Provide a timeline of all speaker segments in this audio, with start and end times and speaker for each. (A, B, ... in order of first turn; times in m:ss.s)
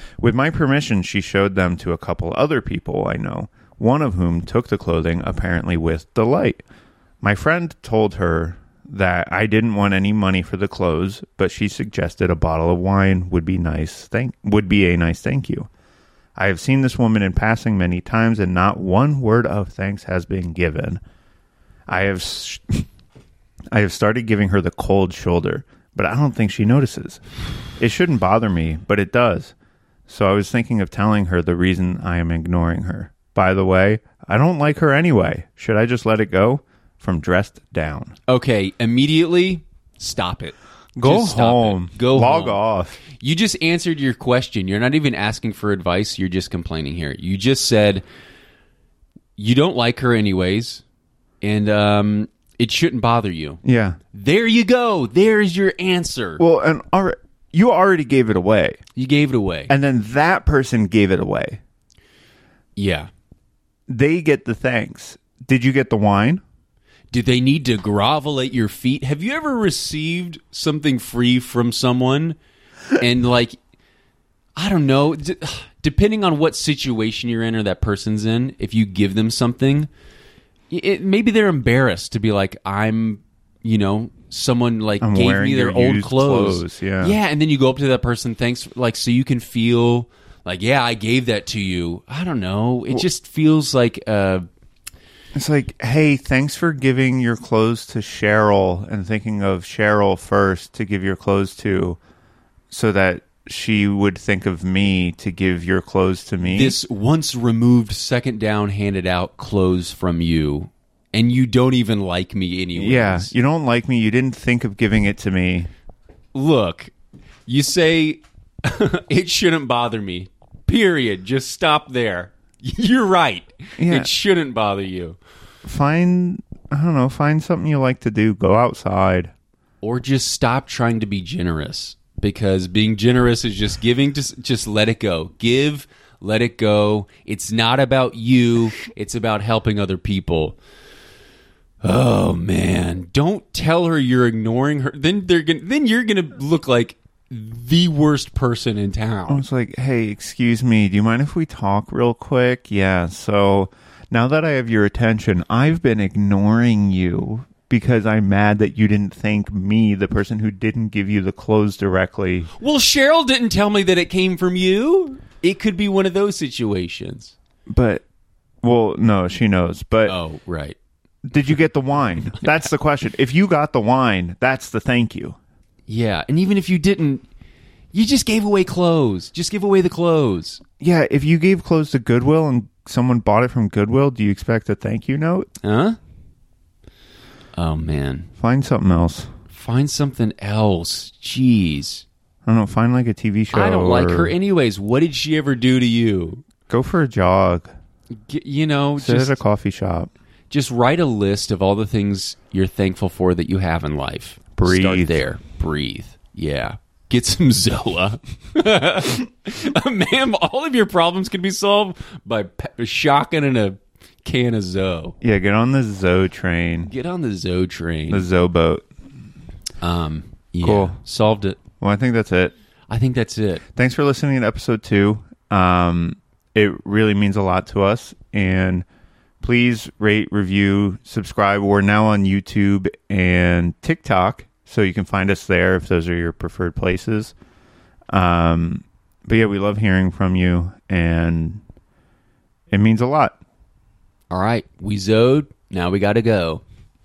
0:00.2-0:06.6 A
0:07.2-0:15.7 A
0:16.4-0:21.0 A
0:21.9-0:22.8 A
0:23.7-0:27.2 A
0:27.8-0:29.5 A
0:30.1-0:38.1 A
0:38.3-0:48.0 B
0:41.0-0:43.0 A
0:49.4-0:50.8 B
0:51.4-0:56.4 B
0:53.6-0:54.0 A
0:56.4-0:58.8 A
0:59.0-0:59.7 B
0:59.7-1:01.6 A
1:02.8-1:03.1 B
1:03.9-1:06.4 A
1:07.1-1:12.4 B
1:13.0-1:13.6 B
1:14.6-1:19.9 B
1:20.7-1:34.4 B
1:25.0-1:27.2 A
1:35.3-1:42.0 A
1:42.7-1:46.7 A
1:46.4-1:53.3 B
1:52.7-1:55.7 A
1:56.3-1:56.9 B
1:57.4-2:05.2 B
2:03.8-2:04.1 A
2:05.6-2:09.3 A
2:09.8-2:20.6 B
2:21.8-2:29.4 B
2:29.3-2:42.5 A
2:42.6-2:47.3 B
2:47.7-2:48.0 A
2:48.6-2:50.2 A
2:50.1-2:50.8 B
2:51.2-2:55.4 A
2:55.9-2:57.2 B
2:57.9-3:00.6 B
3:00.8-3:05.5 A
3:05.6-3:06.0 B
3:07.5-3:08.3 B
3:08.4-3:09.3 A
3:09.5-3:12.0 B
3:12.4-3:14.3 A
3:13.5-3:16.4 B
3:16.7-3:17.7 A
3:18.2-3:19.4 B
3:19.0-3:20.1 A
3:20.5-3:35.2 B
3:24.6-3:25.2 A
3:35.2-3:36.9 A
3:36.8-3:38.2 B
3:38.1-3:38.8 A
3:39.8-3:41.6 B
3:40.6-3:41.0 A
3:41.8-3:42.5 A
3:42.9-3:43.6 B
3:43.7-3:48.8 A
3:49.4-3:57.3 A
3:58.1-4:01.6 A
4:02.7-4:03.4 A
4:04.3-4:06.6 B